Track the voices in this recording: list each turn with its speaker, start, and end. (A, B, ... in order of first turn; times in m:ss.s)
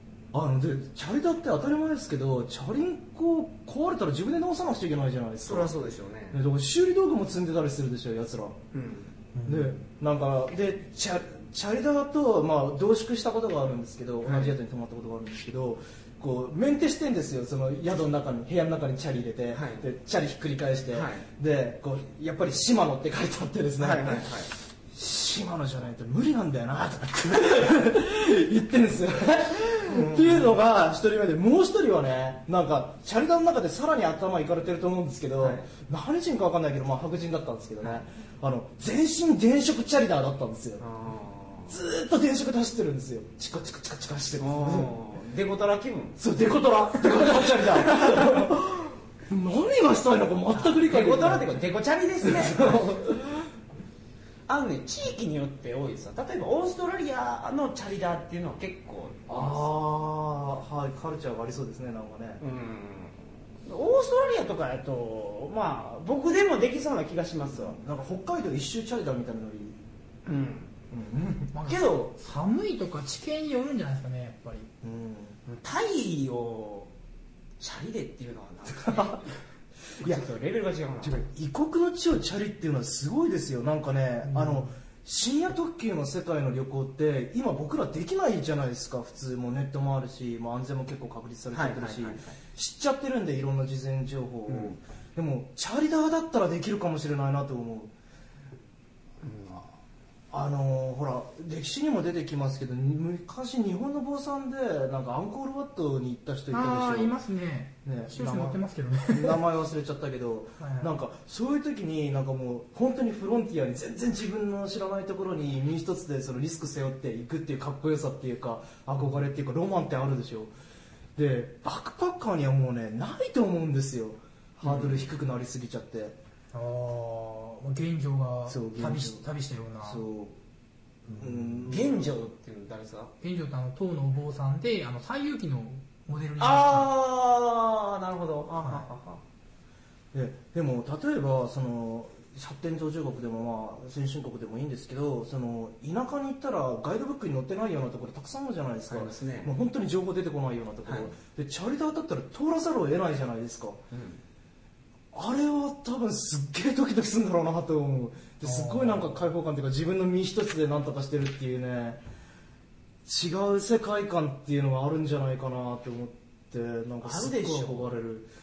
0:00.3-0:05.7 A
0:05.4-0:06.4 B
0:06.3-0:08.6 A
0:08.7-0:09.1 B
0:09.3-0:09.8 C
0:09.4-0:40.8 A
0:14.2-0:14.6 B
0:19.5-0:19.8 B
0:20.9-0:21.2 B
0:23.8-0:24.5 B
0:29.9-0:30.5 B
0:35.4-0:35.7 B
0:40.8-0:41.7 B
0:41.7-0:44.9 A
0:44.4-0:46.2 B
0:46.2-0:51.7 A
0:47.1-0:48.5 B
0:50.5-0:52.9 B
0:52.2-0:53.5 A
0:54.5-0:59.6 B
0:59.3-1:02.4 A
1:02.4-1:07.8 B
1:07.5-1:09.8 A
1:10.2-1:10.7 B
1:10.9-1:11.5 A
1:11.5-1:14.7 C
1:11.6-1:12.1 B
1:14.8-1:15.4 A
1:15.4-1:16.9 B
1:17.6-1:19.4 B
1:18.7-1:19.2 A
1:20.0-1:21.2 B
1:21.0-1:37.9 A
1:24.3-1:24.6 C
1:31.5-1:32.4 B
1:34.5-1:34.8 B
1:39.2-1:39.6 B
1:40.3-1:47.1 A
1:46.5-1:49.4 C
1:47.8-2:00.5 A
1:50.6-1:50.9 C
2:01.2-2:06.2 A
2:04.6-2:05.1 B
2:06.5-2:10.0 C
2:08.5-2:09.2 A
2:09.8-2:10.4 A
2:11.1-2:12.2 A
2:11.7-2:13.1 B
2:13.2-2:16.9 C
2:16.4-2:19.2 B
2:18.6-2:18.9 C
2:20.1-2:33.8 A
2:28.9-2:29.5 B
2:30.8-2:31.1 B
2:33.9-2:34.2 B
2:35.1-2:42.0 A
2:38.5-2:38.8 C
2:43.0-2:48.3 A
2:47.0-2:47.9 B